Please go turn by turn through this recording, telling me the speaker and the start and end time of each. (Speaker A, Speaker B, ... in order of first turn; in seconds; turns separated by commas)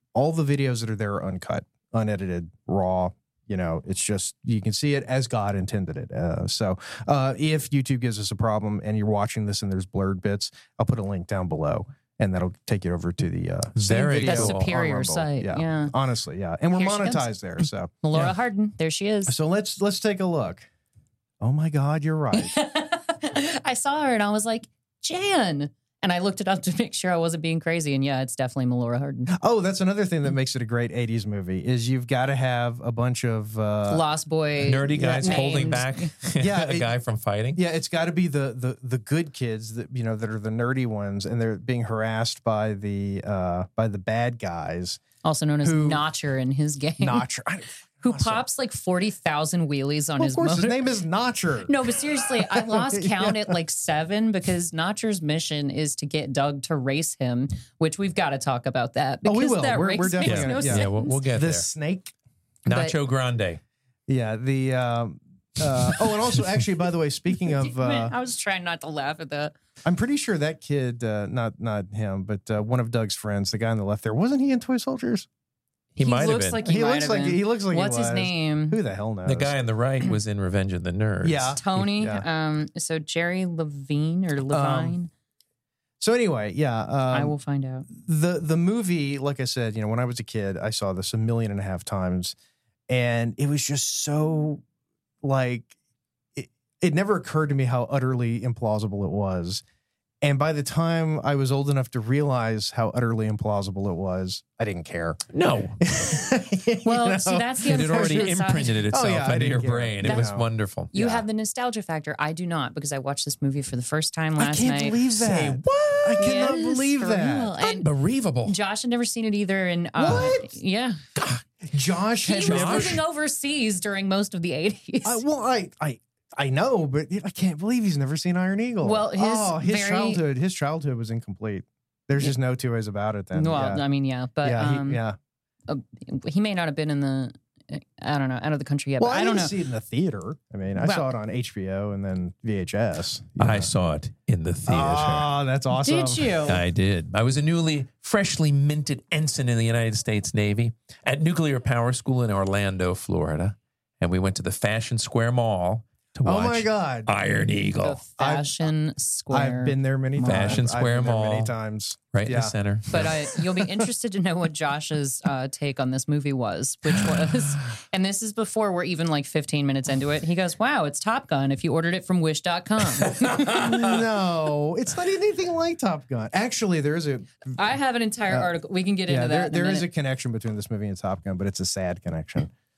Speaker A: 0.1-17.9, Speaker B: 13.8-14.7, Speaker C: 13.9-15.9, Speaker C: 16.7-17.3, Speaker C: 18.0-19.4, Speaker A: 19.3-20.7, Speaker A: 21.4-22.6, Speaker C: 22.3-29.3, Speaker A: 29.3-34.1, Speaker C: 33.9-36.1, Speaker B: 34.6-37.6, Speaker A: 34.7-35.8, Speaker A: 36.4-37.0, Speaker A: 37.5-45.0, Speaker C: 45.2-47.2, Speaker A: 45.6-46.0, Speaker A: 47.0-48.5, Speaker C: 48.0-50.8, Speaker A: 50.2-53.5, Speaker C: 51.7-61.2, Speaker A: 59.2-62.1, Speaker B: 60.2-61.7, Speaker B: 62.6-63.6, Speaker C: 62.7-63.0, Speaker A: 64.1-68.1, Speaker C: 67.6-69.5, Speaker A: 69.8-75.3, Speaker B: 76.0-76.6, Speaker C: 76.0-78.8, Speaker A: 76.6-79.6, Speaker B: 79.2-81.7, Speaker A: 81.2-82.3, Speaker C: 81.6-85.1, Speaker A: 84.5-85.0, Speaker A: 86.0-87.3, Speaker C: 87.1-87.9, Speaker A: 87.9-92.3, Speaker A: 92.9-94.6, Speaker A: 95.2-95.7, Speaker A: 96.3-99.6, Speaker A: 100.2-105.2, Speaker B: 105.3-105.8, Speaker A: 105.8-108.4, Speaker C: 106.8-108.8, Speaker B: 107.7-110.9, Speaker A: 108.9-111.2, Speaker C: 110.0-110.3, Speaker C: 110.9-115.0, Speaker A: 114.4-117.6, Speaker B: 115.2-116.5, Speaker C: 116.2-117.9, Speaker B: 117.6-118.6, Speaker C: 118.4-121.0, Speaker A: 120.0-120.5, Speaker B: 121.2-121.4, Speaker A: 121.7-123.0, Speaker C: 122.2-125.2, Speaker B: 122.4-123.0, Speaker A: 125.0-133.8, Speaker C: 128.8-130.2, Speaker C: 133.3-135.0, Speaker A: 134.4-135.2, Speaker C: 135.7-139.6, Speaker A: 139.0-143.7, Speaker C: 140.8-141.1, Speaker B: 143.4-145.3, Speaker A: 144.7-146.6, Speaker C: 145.7-146.6, Speaker B: 146.5-158.0, Speaker A: 156.2-157.2, Speaker C: 157.8-160.6, Speaker A: 158.2-158.7, Speaker A: 159.3-163.1, Speaker B: 160.2-161.5, Speaker B: 162.1-163.1, Speaker C: 162.9-173.7, Speaker A: 173.4-177.6, Speaker C: 177.5-179.9, Speaker A: 179.1-182.5